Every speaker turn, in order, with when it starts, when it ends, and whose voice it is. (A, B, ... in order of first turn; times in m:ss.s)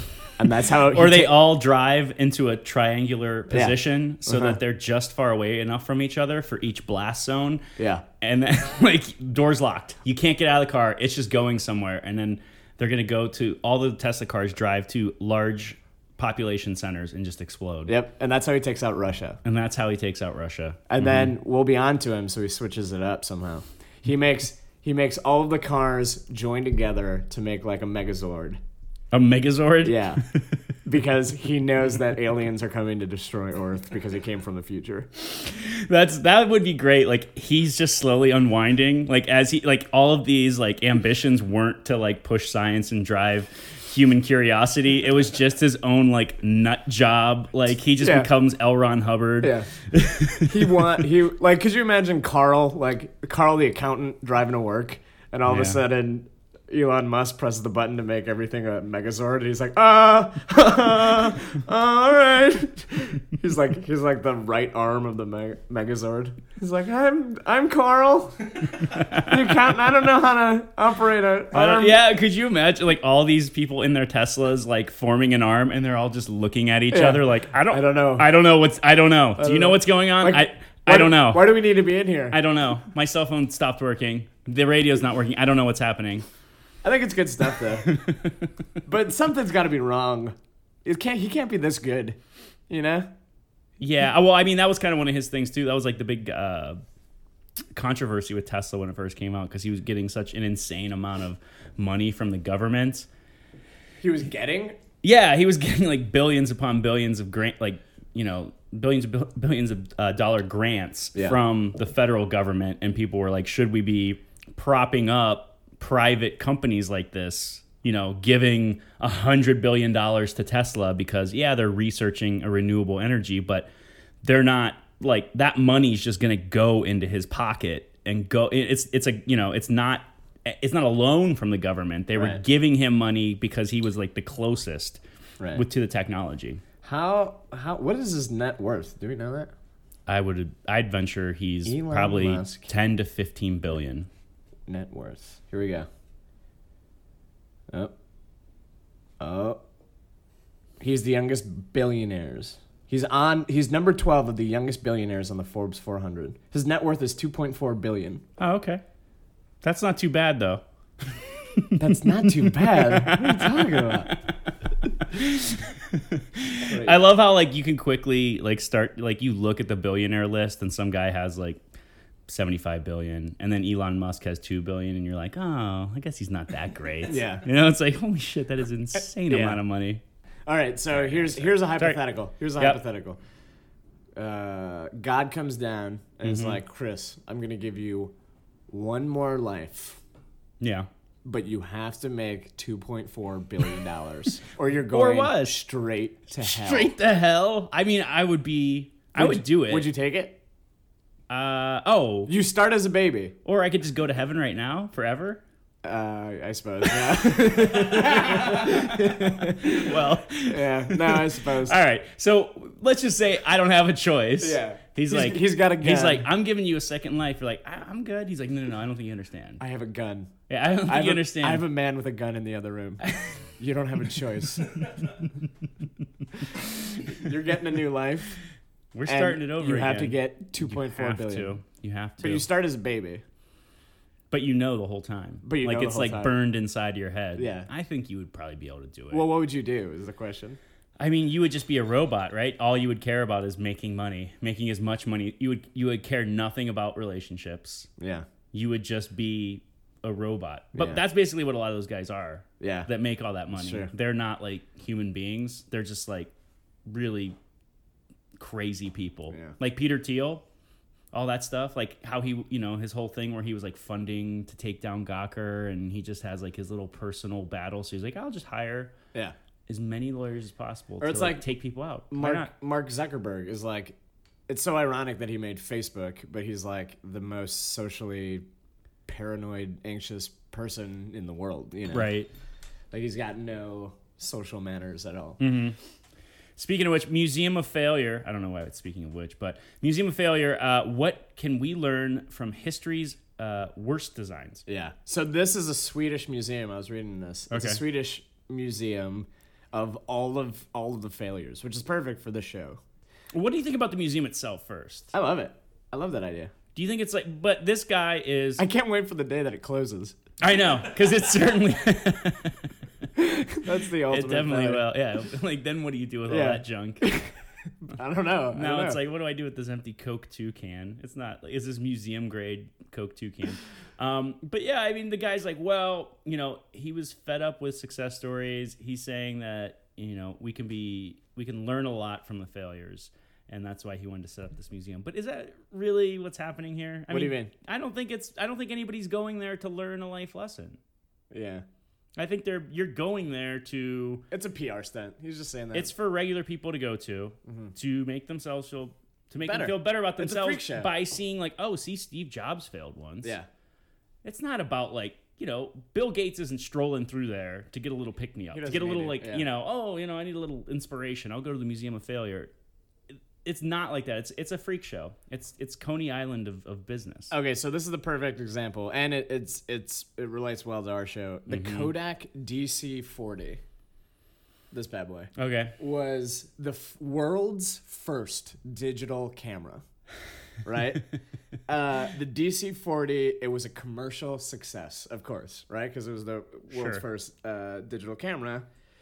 0:00.4-0:01.4 A
0:00.8-0:07.6 B
0:03.5-0:04.6 A
0:07.8-0:08.0 A
0:08.2-0:17.9 B
0:17.9-0:19.4 A
0:19.4-0:21.3 B
0:20.9-0:28.6 A
0:29.1-0:30.6 B
0:29.8-0:30.2 A
0:30.8-0:35.1 A
0:35.2-0:50.9 B
0:48.0-0:48.3 A
0:49.4-0:49.7 A
0:50.4-1:12.0 A
0:55.5-0:55.8 B
1:08.8-1:09.3 B
1:11.5-1:21.5 B
1:16.9-1:18.3 A
1:19.4-1:22.4 A
1:22.3-1:26.3 B
1:26.8-1:27.9 A
1:27.8-1:28.4 B
1:28.9-1:30.3 A
1:30.8-1:32.2 A
1:32.7-1:33.1 A
1:33.8-1:36.8 B
1:37.7-1:43.1 B
1:44.0-1:44.8 A
1:45.0-2:03.7 B
2:04.2-2:15.0 B
2:12.2-2:12.4 A
2:15.5-2:16.6 B
2:16.8-2:19.5 A
2:20.1-2:24.1 B
2:21.7-2:22.7 A
2:24.7-2:25.9 A
2:29.2-2:29.6 A
2:30.8-2:38.2 A
2:38.4-2:38.8 B
2:39.6-2:44.2 B
2:41.8-2:44.2 A
2:45.0-2:51.6 B
2:46.6-2:47.1 A
2:52.3-3:00.0 B
2:57.1-2:57.5 A
2:59.3-2:59.6 A
3:00.5-3:03.2 A
3:00.9-3:02.0 B
3:04.2-3:08.1 A
3:06.2-3:06.6 B
3:08.7-3:10.0 A
3:10.6-3:10.9 B
3:11.2-3:16.9 A
3:14.9-3:15.6 B
3:16.4-3:19.9 B
3:19.2-3:20.4 A
3:21.3-3:22.3 B
3:22.3-3:23.4 A
3:23.4-3:25.4 B
3:25.8-3:31.8 A
3:27.4-3:39.6 B
3:34.4-3:36.3 A
3:39.6-3:40.3 A
3:40.5-3:41.6 B
3:40.9-3:44.8 A
3:43.1-3:43.4 B
3:47.1-3:48.4 A
3:48.9-3:52.5 B
3:49.1-3:51.6 A
3:52.2-3:53.2 A
3:54.3-3:59.3 B
3:55.4-3:56.3 A
3:57.4-3:57.7 A
3:59.1-4:00.6 A
4:01.0-4:07.9 B
4:08.0-4:08.3 A
4:08.5-4:16.3 B
4:10.8-4:11.0 A
4:12.6-4:12.9 A
4:13.5-4:13.9 A
4:16.9-4:17.4 B
4:18.4-4:20.4 B
4:21.1-4:28.9 B
4:29.7-4:32.5 B
4:31.0-4:31.4 A
4:32.1-4:34.0 A
4:34.5-4:38.4 A
4:39.1-4:42.1 A
4:41.9-4:42.3 B
4:42.9-4:45.4 A
4:45.4-4:45.8 B
4:46.6-4:54.7 B
4:54.7-5:02.8 A
4:57.5-4:57.8 B
5:03.3-5:05.1 B
5:05.1-5:06.5 A
5:06.8-5:08.6 B
5:08.6-5:10.2 A
5:10.4-5:12.7 B
5:13.2-5:14.8 A
5:14.0-5:17.1 B
5:16.3-5:19.0 A
5:18.5-5:40.8 B
5:37.1-5:37.5 A
5:41.3-5:41.6 A
5:42.2-5:44.2 B
5:44.3-5:45.9 A
5:45.7-5:53.4 B
5:47.4-5:47.7 A
5:49.4-5:50.9 A
5:54.2-6:02.5 B
5:58.5-5:59.5 A
6:03.1-6:07.3 B
6:07.3-6:13.6 A
6:11.5-6:11.9 B
6:14.7-6:19.8 A
6:15.4-6:15.8 B
6:20.6-6:21.1 A
6:21.7-6:28.7 A
6:26.7-6:27.0 B